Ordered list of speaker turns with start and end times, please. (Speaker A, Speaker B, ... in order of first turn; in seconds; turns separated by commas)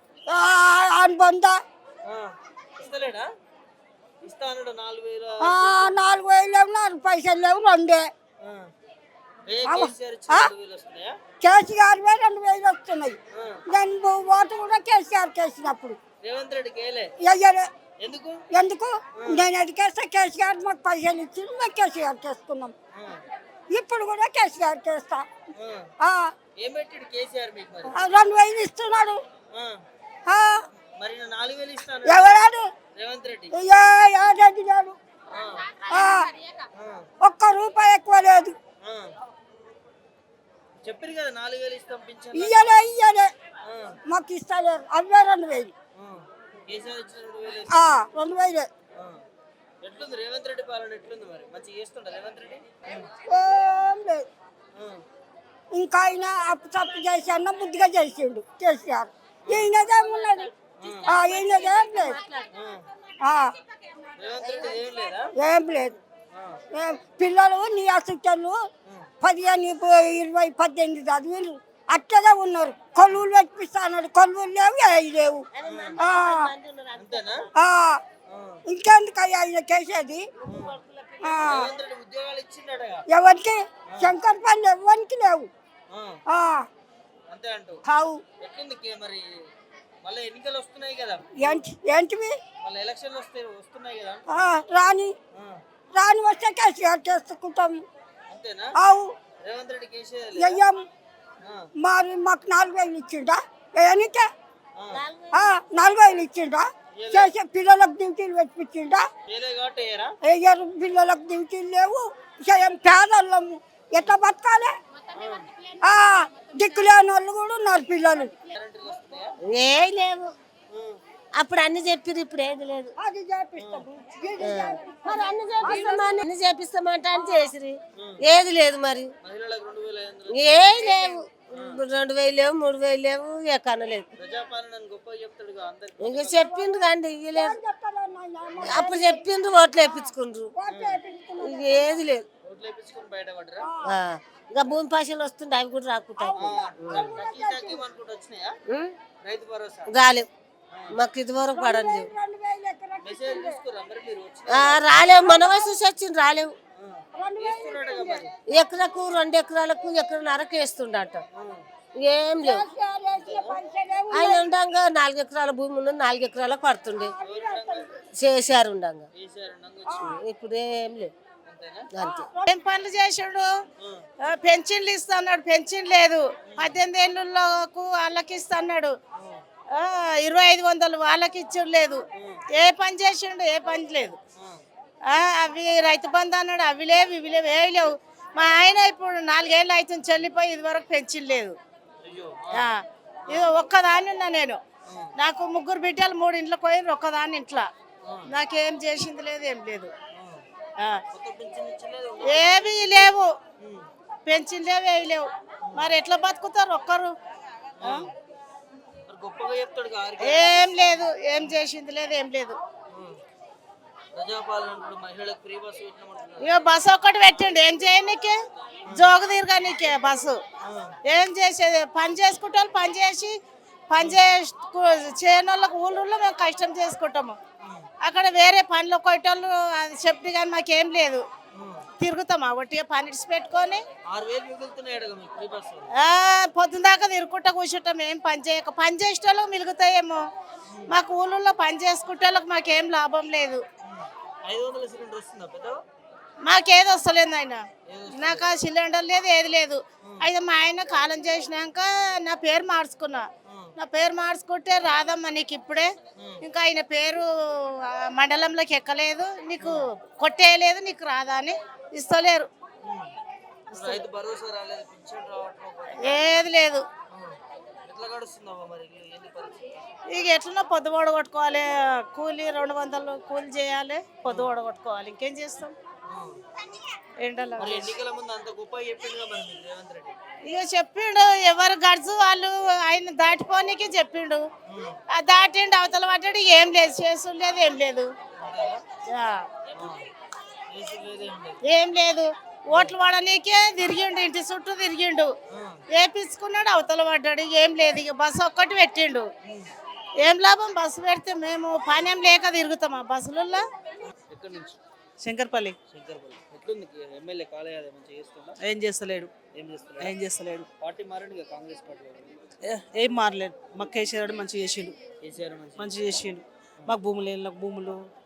Speaker A: 0.3-1.6, Speaker B: 2.1-3.3, Speaker B: 4.2-6.0, Speaker A: 5.4-8.1, Speaker B: 8.4-8.7, Speaker B: 9.5-11.1, Speaker A: 9.7-10.5, Speaker A: 11.4-13.2, Speaker B: 13.3-13.6, Speaker A: 13.7-16.0, Speaker B: 16.2-17.1, Speaker A: 17.2-17.7, Speaker B: 18.0-18.4, Speaker A: 18.5-22.7, Speaker B: 19.1-19.5, Speaker B: 22.9-23.2, Speaker A: 23.7-25.3, Speaker B: 25.6-25.9, Speaker A: 26.0-26.3, Speaker B: 26.6-27.9, Speaker A: 27.9-29.2, Speaker B: 29.5-29.8, Speaker A: 30.3-30.6, Speaker B: 31.0-32.4, Speaker A: 32.0-32.6, Speaker B: 32.9-33.6, Speaker A: 33.6-35.0, Speaker B: 35.3-35.7, Speaker A: 35.9-36.3, Speaker B: 36.8-37.1, Speaker A: 37.2-38.5, Speaker B: 38.8-39.1, Speaker B: 40.8-42.8, Speaker A: 42.3-43.3, Speaker B: 43.6-44.0, Speaker A: 44.1-45.7, Speaker B: 45.9-47.9, Speaker A: 47.7-48.7, Speaker B: 49.8-53.0, Speaker A: 53.3-54.2, Speaker B: 54.8-55.0, Speaker A: 55.7-60.5, Speaker B: 59.5-59.7, Speaker B: 60.8-61.2, Speaker A: 61.0-62.2, Speaker C: 61.3-62.0, Speaker B: 62.5-62.8, Speaker B: 64.2-65.3, Speaker A: 65.4-66.0, Speaker B: 66.3-66.6, Speaker A: 66.7-68.6, Speaker A: 69.2-75.4, Speaker C: 75.5-77.3, Speaker B: 75.6-76.0, Speaker A: 76.0-76.5, Speaker B: 76.9-77.5, Speaker A: 77.6-78.0, Speaker B: 78.3-78.6, Speaker A: 78.7-80.2, Speaker B: 80.5-83.0, Speaker A: 81.2-81.7, Speaker A: 83.1-85.5, Speaker B: 83.9-84.2, Speaker B: 85.9-86.2, Speaker A: 86.3-86.6, Speaker B: 87.3-87.8, Speaker A: 87.9-88.2, Speaker B: 88.4-89.3, Speaker B: 90.0-91.7, Speaker A: 91.4-92.3, Speaker B: 92.6-94.5, Speaker A: 94.3-95.1, Speaker A: 95.9-97.8, Speaker B: 98.3-98.7, Speaker A: 98.8-99.1, Speaker B: 99.4-100.7, Speaker A: 100.4-100.8, Speaker A: 101.8-104.3, Speaker B: 104.8-105.0, Speaker C: 104.9-105.5, Speaker A: 105.3-109.0, Speaker B: 106.9-107.3, Speaker B: 109.3-110.1, Speaker A: 110.2-114.7, Speaker B: 115.1-115.5, Speaker A: 115.8-118.3, Speaker B: 118.5-119.3, Speaker C: 119.4-120.3, Speaker B: 120.7-121.0, Speaker C: 121.3-122.9, Speaker A: 123.0-126.2, Speaker B: 123.5-123.8, Speaker C: 124.4-129.1, Speaker B: 128.0-128.2, Speaker B: 129.2-131.8, Speaker C: 130.3-134.1, Speaker B: 134.2-136.5, Speaker C: 136.0-137.6, Speaker A: 136.3-142.0, Speaker C: 138.6-140.5, Speaker B: 140.7-141.0, Speaker C: 141.4-142.2, Speaker B: 142.4-143.7, Speaker A: 143.7-143.9, Speaker C: 143.8-147.1, Speaker A: 146.2-147.8, Speaker B: 146.4-148.5, Speaker C: 148.7-148.9, Speaker B: 149.2-149.9, Speaker C: 149.9-150.3, Speaker C: 150.9-152.1, Speaker A: 151.5-153.6, Speaker B: 153.0-154.9, Speaker C: 154.5-156.6, Speaker A: 155.2-155.7, Speaker B: 156.8-158.3, Speaker A: 157.2-158.3, Speaker C: 158.5-161.2, Speaker B: 161.3-161.6, Speaker C: 161.9-162.7, Speaker A: 162.4-164.5, Speaker B: 163.1-163.6, Speaker C: 164.1-167.1, Speaker A: 167.0-167.8, Speaker B: 167.2-167.9, Speaker C: 168.1-169.1, Speaker B: 169.1-170.2, Speaker C: 170.1-171.1, Speaker B: 171.4-171.9, Speaker C: 171.9-172.3, Speaker A: 172.0-172.4, Speaker D: 172.4-173.4, Speaker D: 174.2-178.9, Speaker B: 176.5-176.8, Speaker B: 179.2-179.4, Speaker D: 179.7-184.2, Speaker B: 182.2-182.4, Speaker B: 184.4-184.6, Speaker D: 185.0-191.6, Speaker B: 192.0-192.7, Speaker B: 193.2-193.6, Speaker D: 193.3-194.6, Speaker D: 195.2-197.7, Speaker B: 198.0-198.3, Speaker D: 198.3-199.9, Speaker B: 200.1-200.4, Speaker B: 201.1-203.9, Speaker D: 202.2-203.3, Speaker D: 204.2-207.1, Speaker B: 205.7-206.0, Speaker B: 207.8-208.1, Speaker B: 209.1-211.6, Speaker D: 210.2-212.6, Speaker B: 214.1-216.5, Speaker D: 216.4-218.3, Speaker B: 218.9-219.1, Speaker D: 218.9-220.4, Speaker B: 220.6-220.9, Speaker D: 221.0-223.4, Speaker D: 223.9-227.4, Speaker B: 227.6-227.9, Speaker D: 228.0-231.2, Speaker B: 231.5-231.8, Speaker D: 232.0-233.8, Speaker B: 234.1-235.9, Speaker D: 235.9-240.2, Speaker B: 240.7-240.9, Speaker D: 240.9-243.6, Speaker B: 243.8-245.8, Speaker D: 246.4-255.9, Speaker B: 247.9-248.6, Speaker B: 250.0-250.3, Speaker B: 253.5-253.7, Speaker B: 256.2-256.4, Speaker D: 256.4-262.5, Speaker B: 259.6-259.9, Speaker B: 262.8-263.1, Speaker B: 263.7-266.5, Speaker D: 266.0-266.9, Speaker B: 267.1-269.7, Speaker D: 270.1-275.8, Speaker B: 274.2-274.6, Speaker B: 276.1-276.4, Speaker D: 277.2-277.9, Speaker B: 277.6-280.3, Speaker D: 280.4-284.4, Speaker B: 284.7-285.0, Speaker D: 285.1-288.1, Speaker B: 288.4-288.8, Speaker D: 289.1-289.5, Speaker B: 289.7-290.1, Speaker B: 290.7-291.6, Speaker D: 291.6-295.3, Speaker B: 295.5-295.8, Speaker D: 295.9-299.3, Speaker D: 300.2-303.6, Speaker B: 304.3-304.8, Speaker E: 305.2-305.8, Speaker B: 305.8-308.6, Speaker E: 308.6-309.3, Speaker B: 309.5-310.1, Speaker E: 310.0-310.7, Speaker B: 310.8-312.3, Speaker E: 312.6-314.9, Speaker B: 315.2-315.9, Speaker E: 315.8-318.0